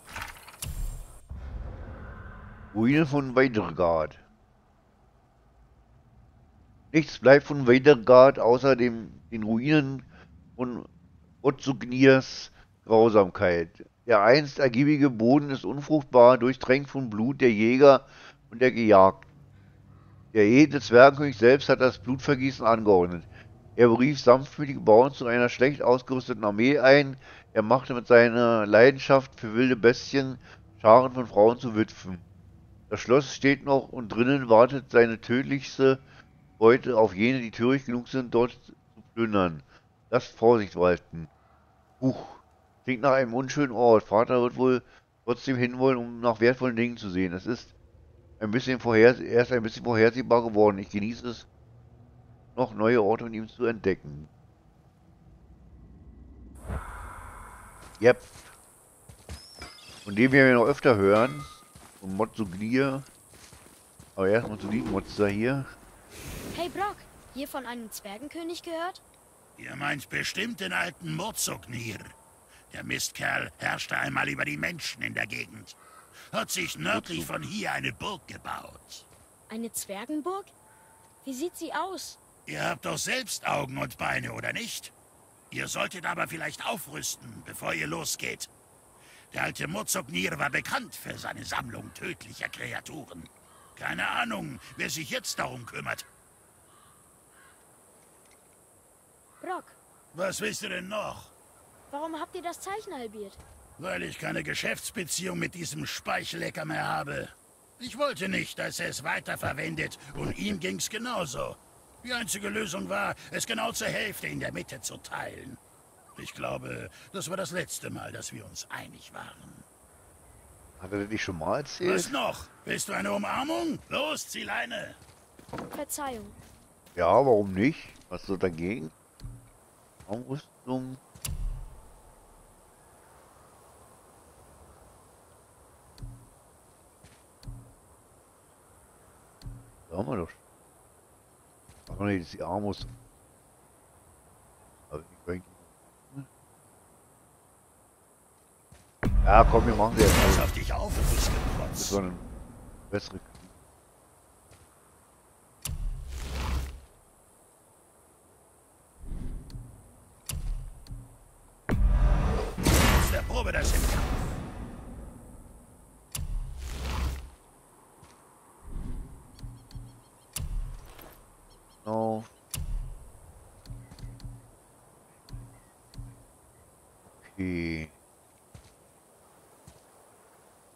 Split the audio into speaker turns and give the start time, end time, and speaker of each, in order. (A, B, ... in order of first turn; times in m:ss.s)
0:02.7-0:04.2 A
0:06.9-0:10.9 A
0:11.4-0:19.3 A
0:20.3-0:32.2 A
0:32.9-0:36.0 A
0:36.6-0:41.3 A
0:42.0-0:47.7 A
0:48.4-0:51.5 A
0:52.5-0:54.3 A
0:58.0-0:58.4 A
1:00.0-1:03.1 A
1:04.2-1:05.7 A
1:06.5-1:09.0 B
1:09.6-1:12.1 C
1:12.7-1:15.8 C
1:16.3-1:19.0 C
1:16.9-1:17.3 A
1:19.5-1:20.5 B
1:21.2-1:22.2 B
1:22.5-1:24.9 C
1:25.5-1:28.5 C
1:29.3-1:36.0 C
1:39.4-1:39.8 B
1:40.1-1:41.3 C
1:41.9-1:43.4 B
1:43.8-1:55.6 C
1:56.2-1:59.6 C
2:00.8-2:02.2 A
2:01.8-2:05.0 C
2:05.7-2:06.4 B
2:06.9-2:08.9 A
2:10.1-2:11.0 A
2:19.9-2:20.4 A
2:21.9-2:22.9 A
2:24.9-2:26.3 A
2:29.2-2:30.5 A
2:30.1-2:32.0 C
2:31.8-2:32.3 A
2:32.9-2:33.5 A
2:42.9-2:44.3 C
2:51.8-2:52.3 A
2:57.0-2:57.9 A